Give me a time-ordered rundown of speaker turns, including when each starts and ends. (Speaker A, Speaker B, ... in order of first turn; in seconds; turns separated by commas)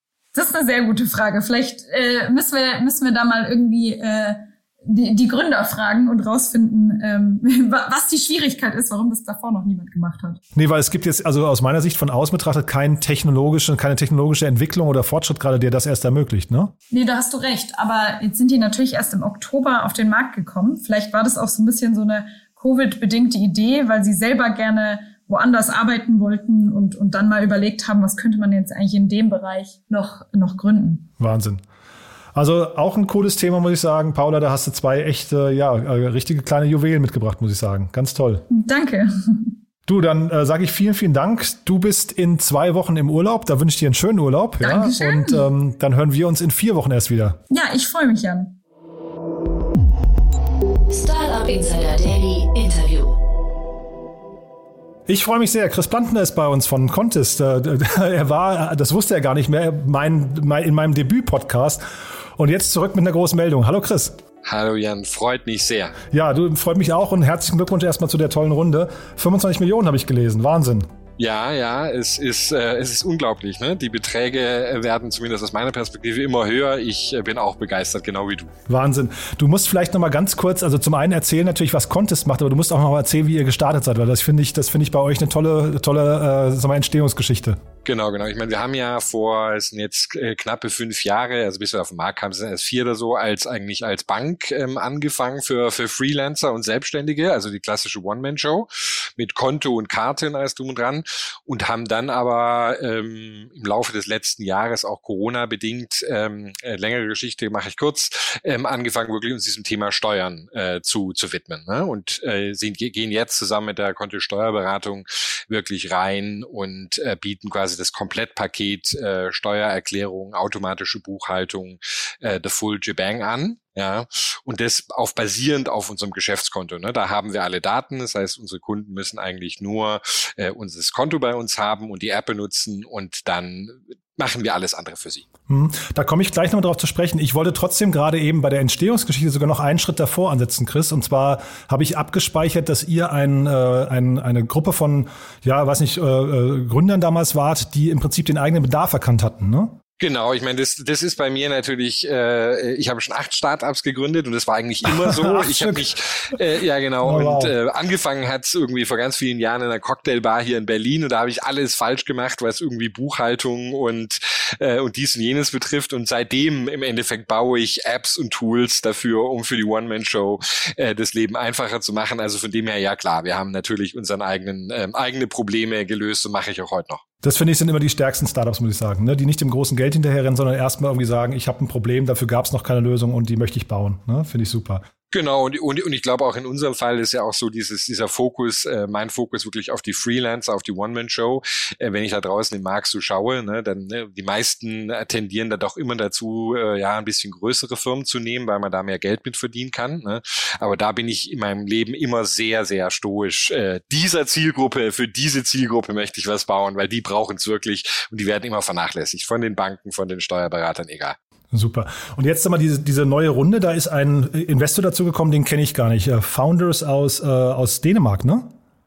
Speaker A: 0.3-10.4, Speaker B: 10.6-16.7, Speaker A: 16.9-31.1, Speaker B: 31.2-31.6, Speaker B: 32.4-38.5, Speaker A: 38.5-39.5, Speaker B: 39.9-47.4, Speaker A: 44.6-45.5, Speaker A: 47.5-48.5, Speaker C: 50.9-53.2, Speaker B: 55.1-61.8, Speaker B: 62.4-64.2, Speaker D: 64.4-65.9, Speaker B: 66.1-70.9, Speaker D: 71.2-78.5, Speaker B: 78.7-87.6, Speaker D: 87.8-135.2, Speaker B: 135.5-149.8, Speaker D: 150.0-177.0, Speaker B: 154.8-155.9, Speaker B: 157.0-157.6, Speaker B: 177.2-184.8, Speaker D: 185.1-211.2, Speaker B: 211.5-218.5